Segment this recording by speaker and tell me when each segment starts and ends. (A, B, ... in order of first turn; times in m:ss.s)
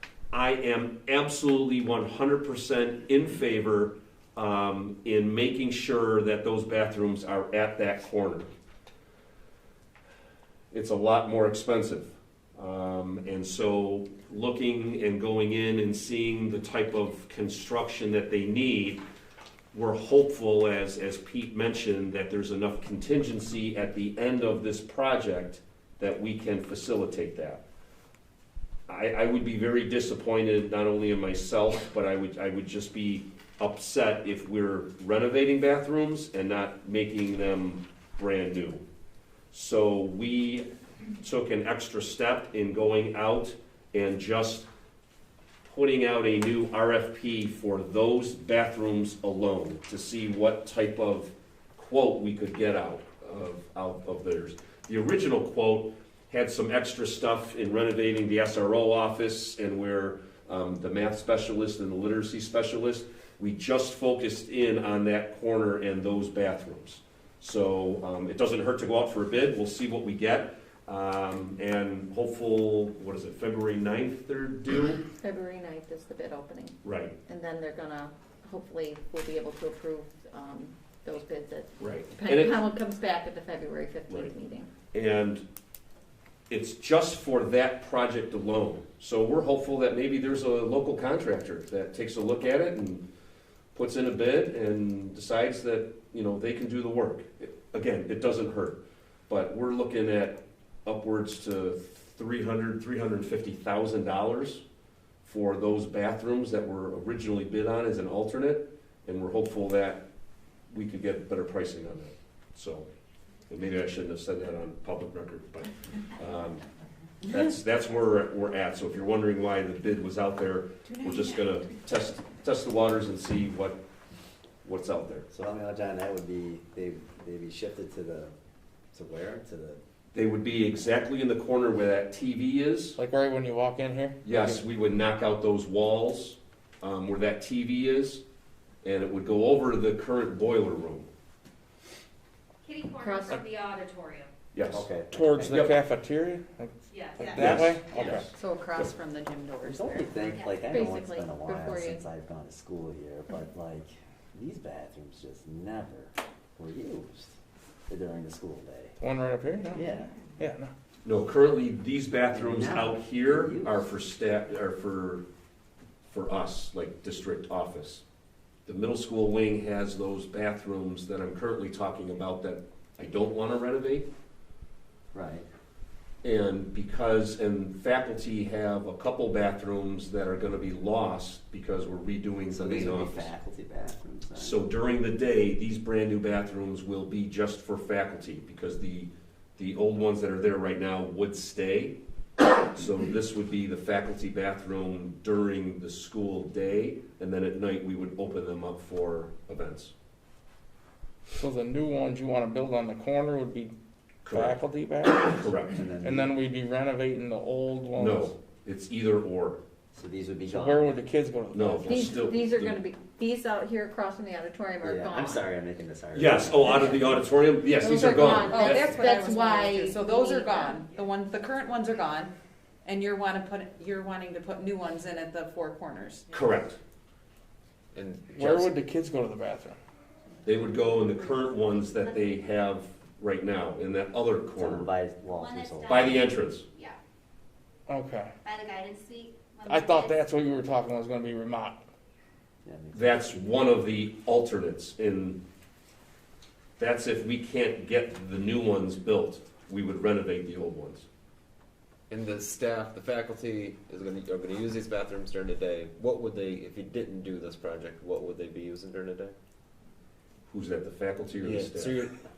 0:00.3-0:08.5 A
0:10.7-0:19.0 A
0:19.7-0:27.6 A
0:28.9-0:38.8 A
0:39.5-0:40.7 A
0:41.2-0:44.7 A
0:45.6-1:15.0 A
1:15.2-1:24.7 B
1:16.8-1:17.2 A
1:21.8-1:22.6 A
1:24.9-1:25.4 A
1:26.5-1:33.0 A
1:33.7-1:44.6 A
1:45.2-1:50.0 A
1:50.7-1:52.9 A
1:53.5-1:56.6 A
1:57.2-2:03.8 A
2:04.6-2:05.3 A
2:05.3-2:08.3 C
2:08.9-2:09.8 C
2:10.1-2:13.0 A
2:13.0-2:14.6 D
2:14.2-2:18.2 A
2:18.8-2:21.1 A
2:22.6-2:24.3 E
2:23.0-2:23.4 B
2:24.5-2:24.9 A
2:24.6-2:25.7 C
2:25.1-2:28.3 D
2:25.5-2:25.8 A
2:26.9-2:27.4 E
2:27.4-2:28.3 A
2:28.4-2:30.2 F
2:29.6-2:37.3 C
2:30.3-2:30.7 E
2:30.7-2:32.0 B
2:37.9-2:38.9 C
2:39.0-2:39.8 D
2:39.7-2:40.1 C
2:40.4-2:40.7 D
2:41.0-2:45.2 A
2:42.3-2:43.8 C
2:46.1-2:48.0 A
2:48.7-2:54.1 A
2:55.1-2:55.5 C
2:56.2-3:03.3 A
3:02.5-3:04.6 C
3:04.4-3:12.0 A
3:12.5-3:19.9 A
3:21.4-3:23.7 D
3:24.2-3:24.6 A
3:24.3-3:25.5 D
3:25.3-3:25.8 A
3:25.7-3:26.3 C
3:26.0-3:28.3 D
3:28.0-3:29.6 A
3:29.9-3:31.0 C
3:30.5-3:32.1 D
3:31.5-3:32.8 A
3:31.9-3:35.5 B
3:34.8-3:37.2 C
3:36.2-3:39.0 A
3:37.7-3:40.8 B
3:38.4-3:42.3 F
3:42.8-3:46.3 F
3:46.3-3:46.8 A
3:48.0-3:48.7 G
3:48.3-3:49.8 D
3:50.4-3:54.9 A
3:51.2-3:52.5 E
3:54.6-3:56.3 C
3:55.3-3:57.0 E
3:55.9-3:56.6 A
3:57.9-3:58.3 D
3:58.4-4:00.2 E
3:59.7-4:01.8 D
4:02.6-4:03.3 C
4:02.9-4:05.4 A
4:06.8-4:11.1 A
4:12.1-4:19.3 G
4:20.5-4:22.1 A
4:21.4-4:22.1 G